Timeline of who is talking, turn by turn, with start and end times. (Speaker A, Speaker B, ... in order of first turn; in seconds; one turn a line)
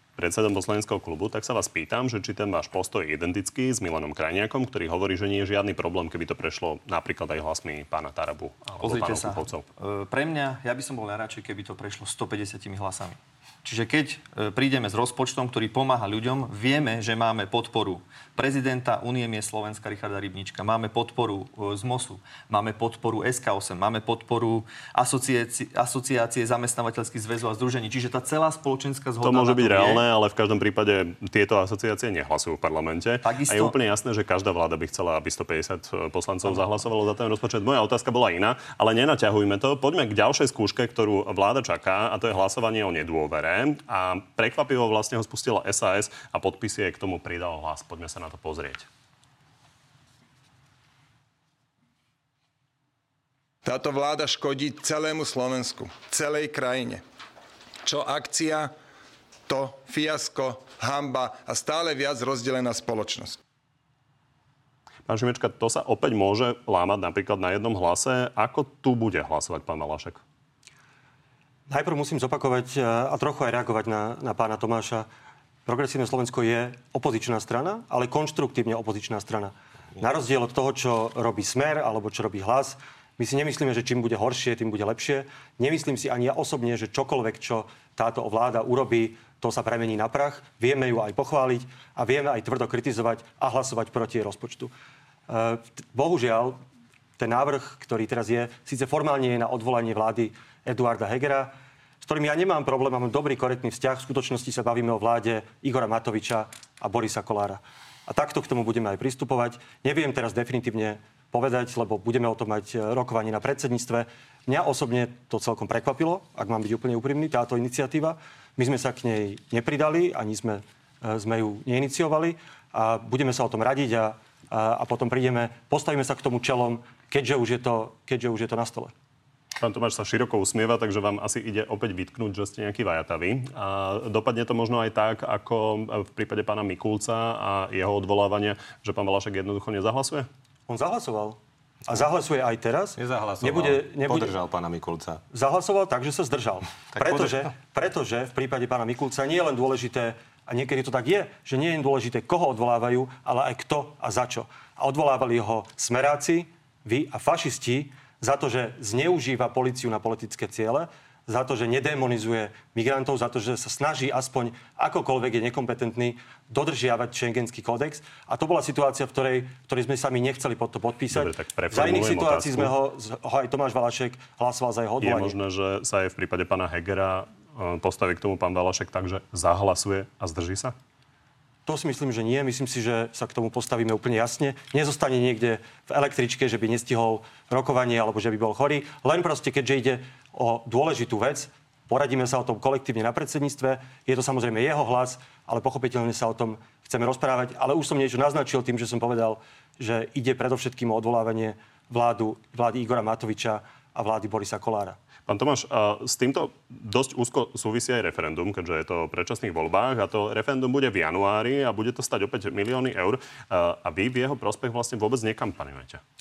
Speaker A: 0.2-9.7
Speaker B: 8.8-30.0
Speaker A: 29.2-48.9
Speaker B: 33.2-33.8
Speaker C: 53.6-57.0
Speaker C: 57.8-58.7
Speaker C: 59.5-63.4
Speaker A: 65.1-70.2
Speaker D: 71.7-75.1
Speaker D: 75.7-94.7
Speaker D: 95.3-96.6
Speaker D: 97.2-128.9
Speaker A: 129.6-140.3
Speaker D: 140.7-144.3
Speaker E: 143.0-145.2
Speaker D: 145.3-175.3
Speaker E: 146.9-147.5
Speaker A: 171.1-172.7
Speaker A: 175.0-180.7
Speaker D: 181.7-205.0
Speaker A: 205.3-216.0